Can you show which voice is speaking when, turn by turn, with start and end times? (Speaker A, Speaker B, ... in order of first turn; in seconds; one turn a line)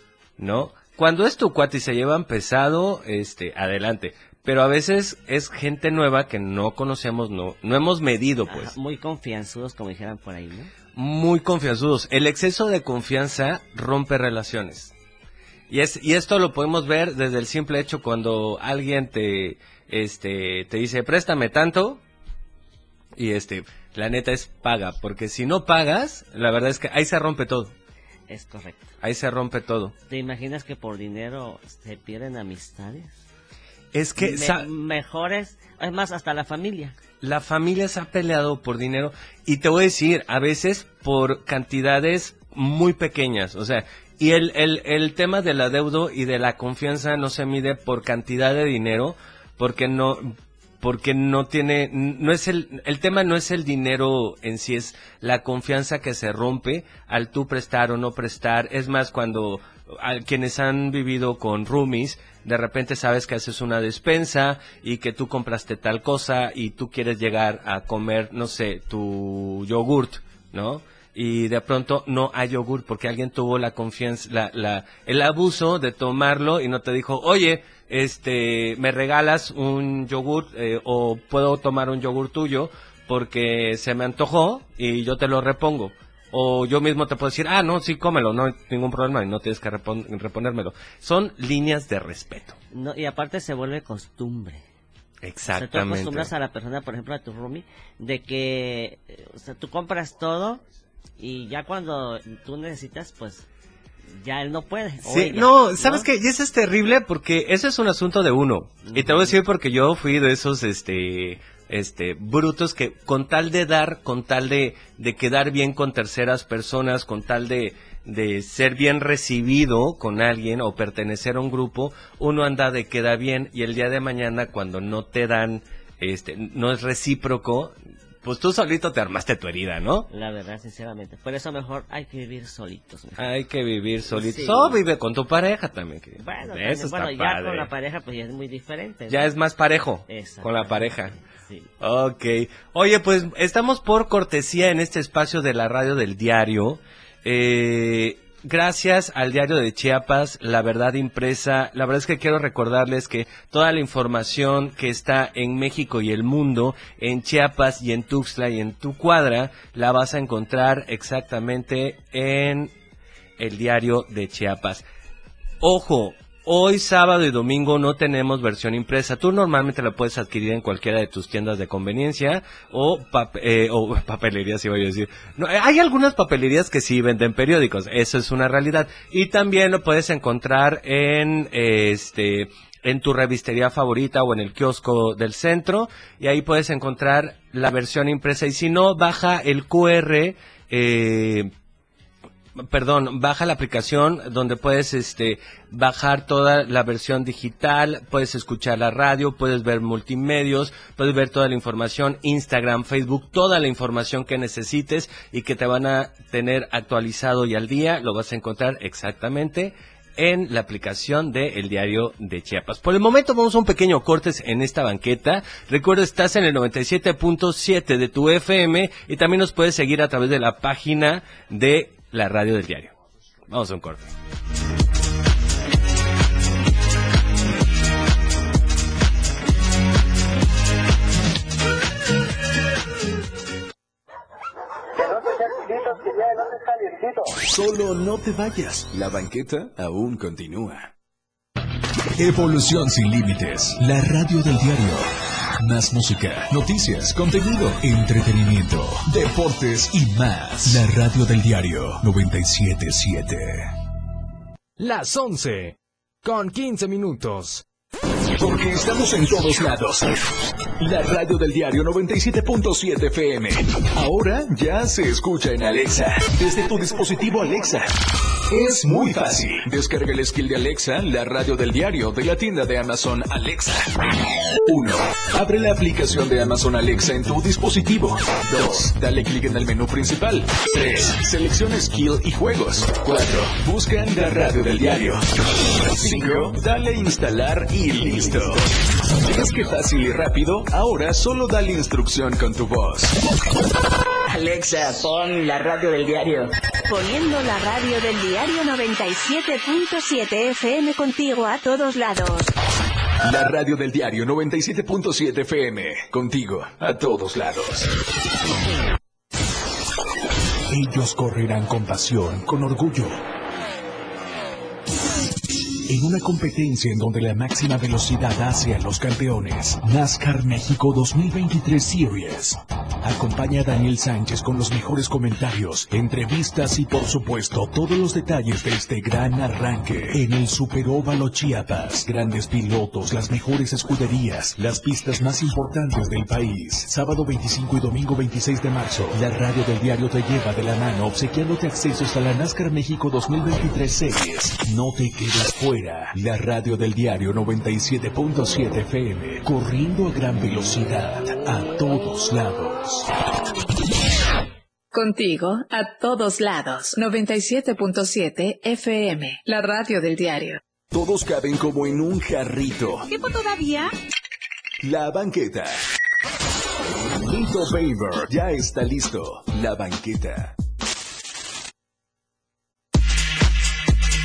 Speaker A: 0.4-8.7
Speaker B: 8.5-10.7
Speaker A: 10.9-14.9
Speaker A: 15.7-22.0
Speaker A: 23.1-27.7
Speaker B: 28.3-28.9
Speaker A: 29.0-29.9
Speaker B: 30.1-33.1
Speaker A: 33.9-34.7
Speaker B: 34.2-37.0
Speaker A: 37.2-92.5
Speaker B: 92.7-94.6
Speaker A: 95.2-96.3
Speaker B: 95.5-100.6
Speaker B: 101.2-103.5
Speaker B: 104.1-106.1
Speaker A: 105.0-130.1
Speaker B: 108.9-109.3
Speaker B: 130.1-133.3
Speaker A: 133.2-137.7
Speaker B: 134.1-134.8
Speaker B: 136.2-139.3
Speaker A: 139.1-141.1
Speaker B: 140.1-141.7
Speaker A: 141.8-162.7
Speaker A: 163.4-164.8
Speaker A: 165.6-191.5
Speaker A: 192.6-222.9
Speaker A: 223.5-224.1
Speaker C: 237.3-240.9
Speaker C: 242.2-253.7
Speaker D: 254.8-257.6
Speaker C: 258.4-260.2
Speaker C: 260.8-274.0
Speaker C: 274.6-293.2
Speaker E: 294.3-296.5
Speaker F: 296.9-302.5
Speaker C: 303.2-307.9
Speaker C: 310.7-313.2
Speaker C: 315.9-353.1
Speaker G: 354.9-360.6
Speaker C: 360.9-363.1
Speaker F: 363.1-363.9
Speaker C: 364.8-365.9
Speaker C: 367.2-370.6